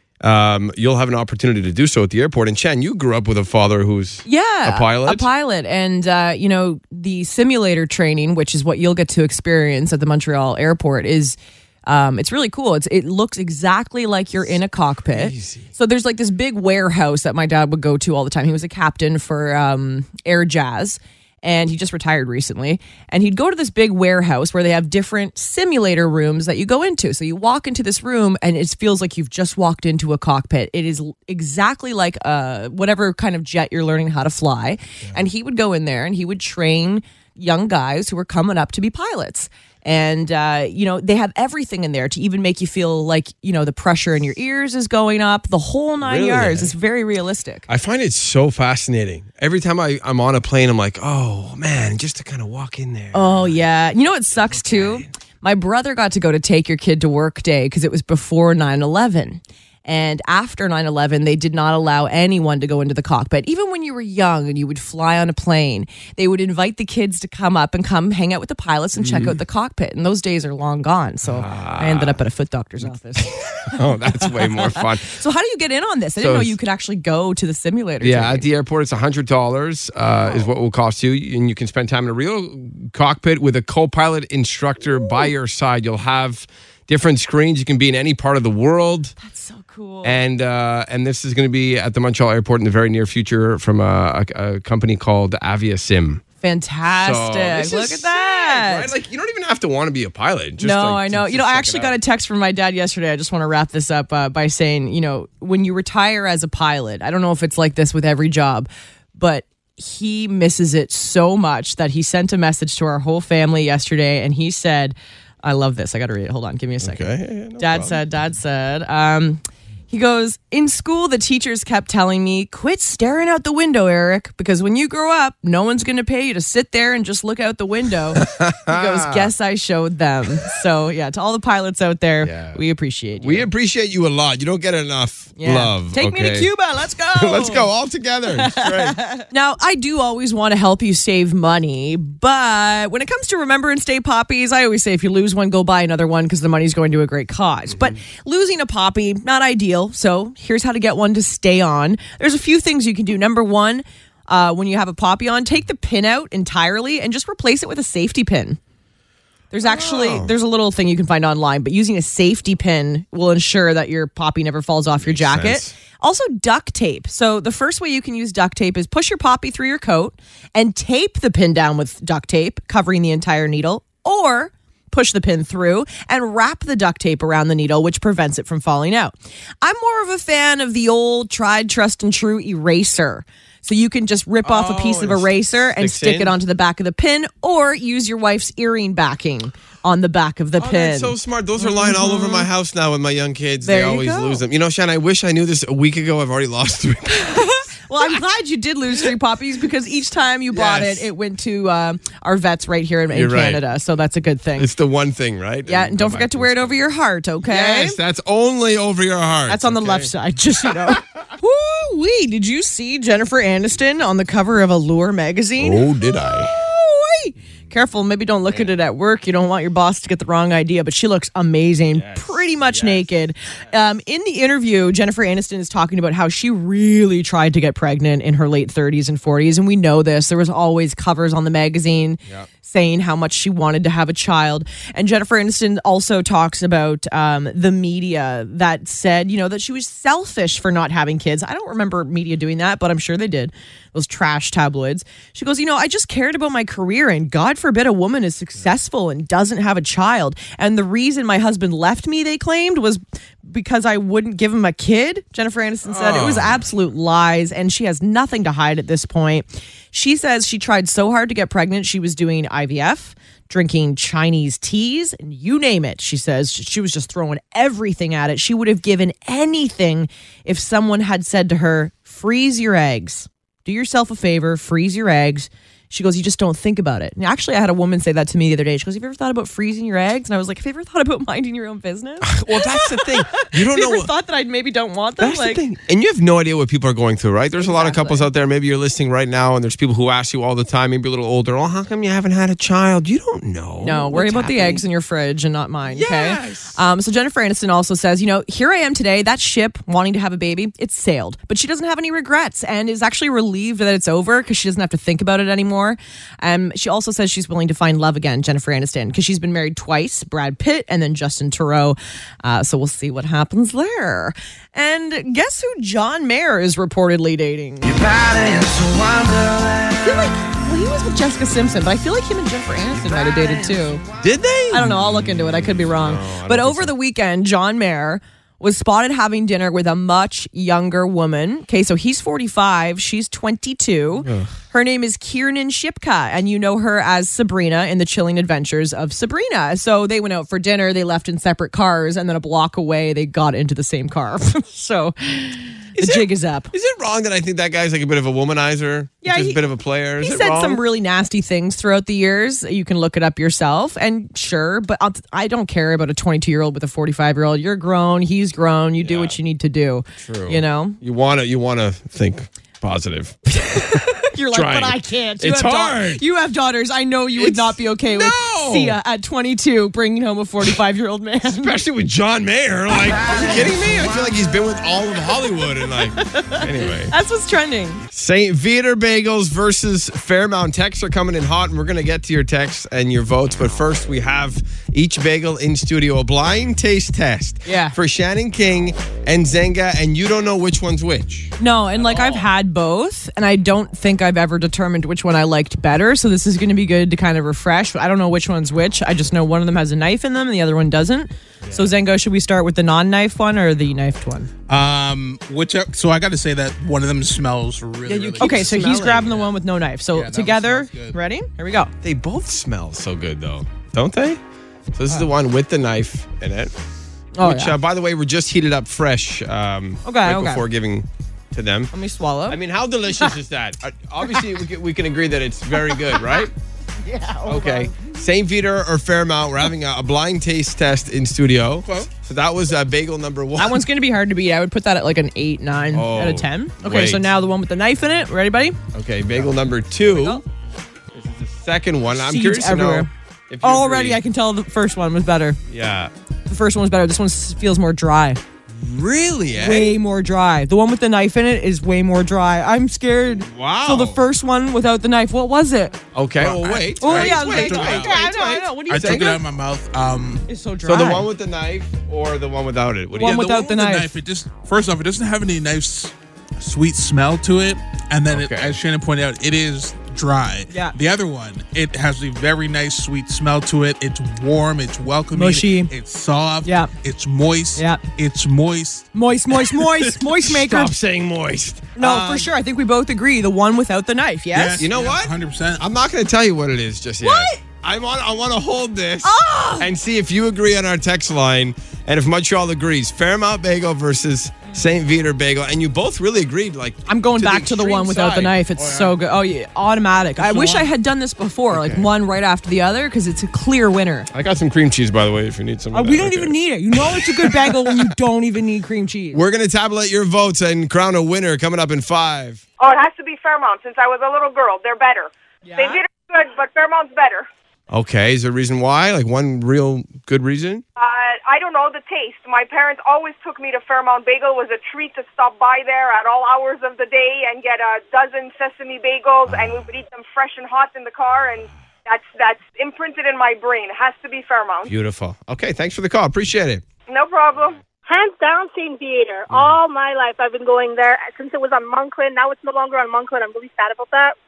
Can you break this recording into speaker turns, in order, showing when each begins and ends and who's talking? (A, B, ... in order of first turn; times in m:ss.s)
0:00.2-0:05.3 A
0:04.3-0:47.6 B
0:15.1-0:15.7 A
0:46.0-0:46.8 A
0:47.7-0:53.6 A
0:53.1-1:18.4 B
0:54.5-0:55.1 A
1:09.0-1:09.4 A
1:11.2-1:12.2 A
1:13.2-1:15.1 A
1:16.2-1:16.6 A
1:18.0-1:29.1 A
1:20.2-1:20.5 B
1:29.2-1:30.2 B
1:30.0-1:36.2 A
1:36.4-1:38.9 B
1:37.0-1:42.0 A
1:40.6-2:13.5 B
1:56.8-1:58.0 A
2:08.2-2:09.3 A
2:12.2-2:12.6 A
2:13.2-2:16.5 A
2:15.4-2:17.7 B
2:17.2-2:19.0 A
2:18.3-2:38.6 B
2:39.5-3:12.5 B
2:39.6-2:40.3 A
2:45.0-2:45.8 A
3:04.4-3:06.4 A
3:10.6-3:17.7 A
3:13.6-3:14.4 B
3:17.1-3:24.7 B
3:20.5-3:21.1 A
3:23.1-3:23.6 A
3:24.6-3:26.8 A
3:25.7-3:28.0 B
3:27.4-3:30.1 A
3:29.5-4:45.6 B
3:35.6-3:36.5 A
3:41.9-3:43.1 A
4:15.9-4:16.6 A
4:42.2-4:44.1 A
4:45.2-4:54.8 A
4:47.6-4:48.3 B
4:53.8-5:18.0 B
4:55.8-4:56.8 A
5:20.0-5:24.0 B
5:24.2-5:24.9 A
5:24.7-5:46.7 B
5:26.0-5:27.0 A
5:34.2-5:34.5 A
5:46.0-5:50.8 A
5:49.2-5:49.6 B
5:50.2-6:01.0 B
5:59.0-5:59.4 A
6:00.2-6:03.4 A
6:03.5-6:11.8 B
6:04.5-6:06.2 A
6:07.3-6:09.0 A
6:11.4-6:17.1 A
6:15.9-6:18.0 B
6:18.1-6:32.5 A
6:27.7-6:28.0 B
6:31.6-6:44.5 B
6:41.6-6:41.9 A
6:44.7-6:48.7 C
6:48.1-6:49.4 A
6:48.4-6:51.9 B
6:50.2-6:51.1 C
6:52.0-6:54.4 A
6:54.9-6:56.7 A
6:57.4-6:57.8 B
6:57.4-7:01.9 A
7:00.0-7:00.6 B
7:01.9-7:02.6 B
7:02.5-7:06.5 A
7:07.0-7:07.9 B
7:07.5-7:13.8 A
7:11.8-7:12.1 C
7:13.6-7:18.8 B
7:15.9-7:17.2 A
7:18.9-7:20.4 A
7:20.0-7:20.4 B
7:21.1-7:24.2 A
7:22.2-7:23.1 B
7:23.6-7:25.6 B
7:25.7-7:26.1 A
7:26.5-7:28.4 B
7:28.7-7:30.0 A
7:29.5-7:36.0 B
7:33.4-7:34.3 A
7:36.1-7:39.4 A
7:36.4-7:38.2 C
7:37.0-7:39.4 B
7:38.9-7:40.4 C
7:40.5-7:41.3 B
7:40.8-7:43.6 A
7:43.2-7:44.2 B
7:43.4-7:59.1 C
7:48.3-7:48.8 A
7:50.7-7:51.0 B
7:55.3-7:55.9 B
7:56.6-7:56.9 B
7:57.8-7:58.0 B
7:59.1-8:01.0 B
8:00.4-8:02.2 A
8:02.0-8:04.9 B
8:02.1-8:02.3 C
8:04.5-8:05.8 C
8:04.8-8:18.6 A
8:07.2-8:07.6 B
8:09.2-8:09.9 B
8:17.1-8:24.3 B
8:18.8-8:19.1 C
8:20.4-8:20.9 C
8:21.7-8:22.1 A
8:24.3-8:28.1 A
8:25.9-8:29.4 B
8:29.3-8:32.6 A
8:32.8-8:37.5 D
8:35.6-8:36.0 B
8:37.9-8:40.8 A
8:41.0-8:54.9 D
8:49.5-8:49.8 A
8:54.9-8:56.8 A
8:57.1-8:57.8 D
8:58.1-9:04.4 E
8:59.5-8:59.8 A